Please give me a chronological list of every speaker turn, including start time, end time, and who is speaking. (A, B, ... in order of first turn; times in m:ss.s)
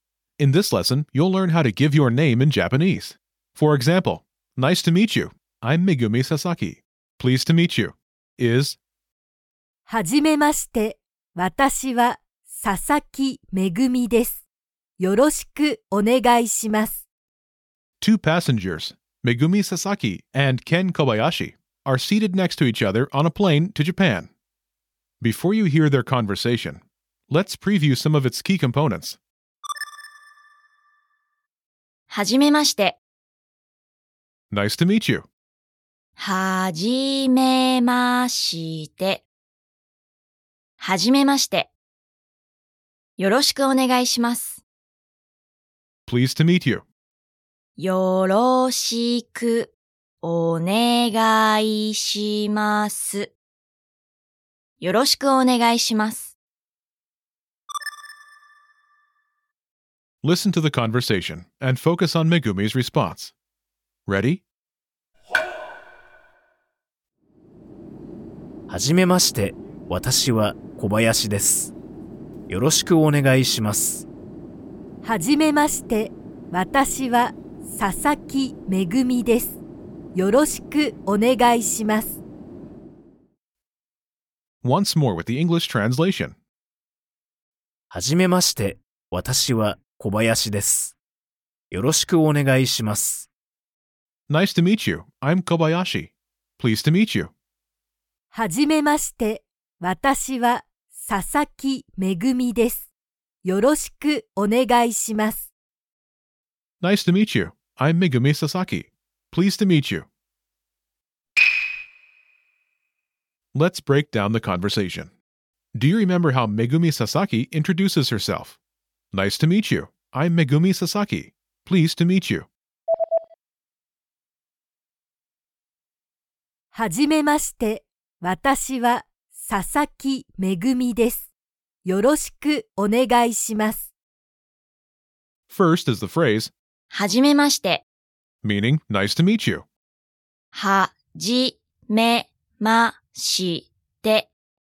0:00.4-0:08.8 A
0:09.9-0:14.4 B
0:15.0-0:17.0 B
0:18.0-0:24.3 A
0:25.2-0:29.2 A
0:32.1-0:33.0 C
0:34.5-0:35.3 A
0:36.2-0:39.3 C
0:40.8-0:41.7 C
0:43.2-0:44.6 C
0:46.1-0:46.9 A
0:47.8-0:53.3 C
0:54.8-0:56.4 C
1:00.2-1:03.3 A
1:04.1-1:04.4 A
1:08.7-1:11.7 D
1:12.5-1:14.1 D
1:15.0-1:19.6 B
1:20.1-1:22.2 B
1:24.6-1:26.4 A
1:27.9-1:31.0 D
1:31.7-1:33.3 D
1:34.3-1:37.3 A
1:38.3-1:42.9 B
1:43.4-1:45.5 B
1:46.8-1:50.1 A
1:53.5-1:55.1 A
1:55.8-1:58.6 A
1:59.1-2:02.5 A
2:06.7-2:11.3 B
2:11.8-2:13.9 B
2:15.5-2:16.5 A
2:16.9-2:17.8 C
2:18.4-2:19.7 A
2:20.5-2:24.3 C